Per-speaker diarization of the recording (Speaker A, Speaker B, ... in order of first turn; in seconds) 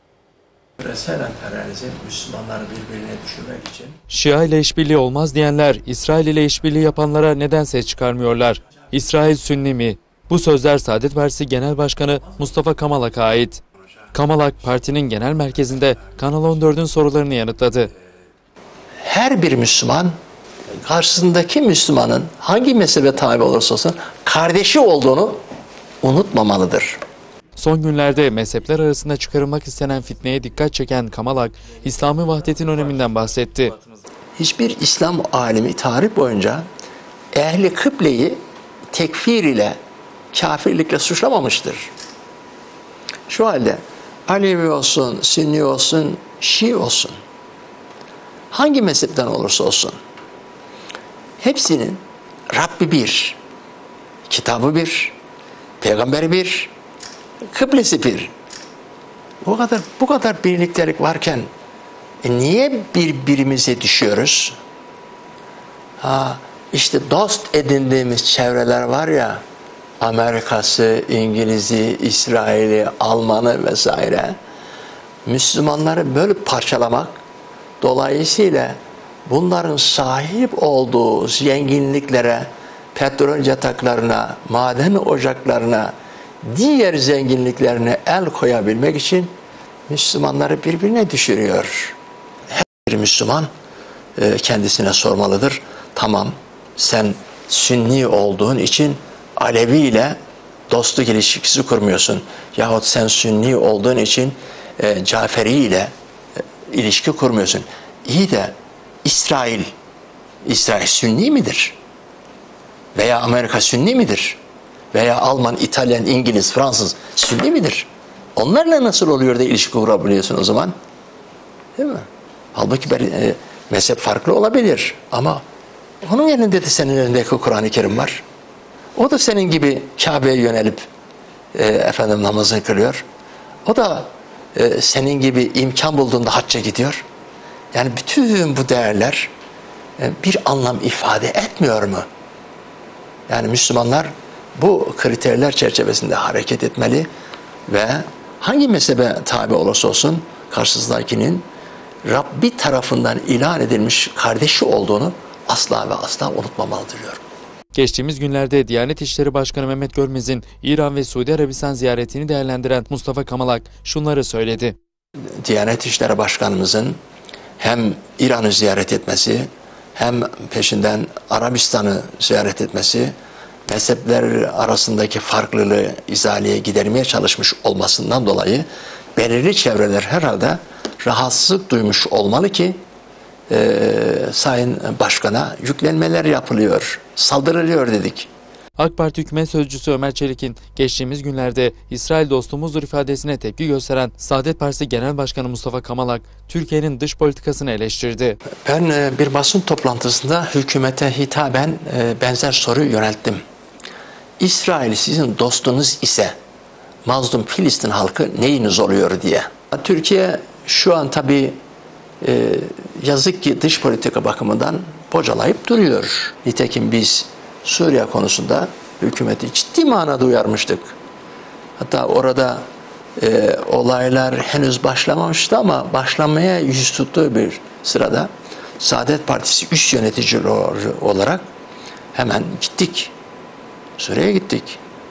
Speaker A: 0.8-4.0, 19.0-20.1, 20.8-25.4, 26.0-27.0, 34.4-36.6, 37.3-38.4, 38.9-39.8, 40.3-41.9, 43.3-47.1, 48.5-50.0, 51.4-53.4, 54.3-55.2, 55.8-56.7, 57.5-58.3, 59.4-61.5, 62.2-64.6, 66.0-69.4, 70.0-74.4, 75.3-77.2, 77.8-89.3, 89.9-92.0, 92.5-93.5, 94.2-100.2, 100.7-105.9, 106.7-109.7, 110.4-111.8, 113.0-114.4, 114.9-120.8, 121.8-125.4, 126.0-128.2, 129.0-130.9, 131.5-133.0, 133.7-137.0, 137.7-139.3, 140.0-142.1, 143.3-147.1, 147.7-151.5, 152.1-157.2, 165.4-167.0, 167.6-173.1, 173.7-182.8, 183.5-188.3, 198.6-203.4, 204.4-206.3, 207.1-211.6, 212.2-220.9, 221.8-222.6, 223.2-231.5, 232.1-233.1, 234.0-234.8
Speaker B: 4.1-13.6, 14.1-17.9, 27.6-33.8, 157.7-164.8, 188.8-198.4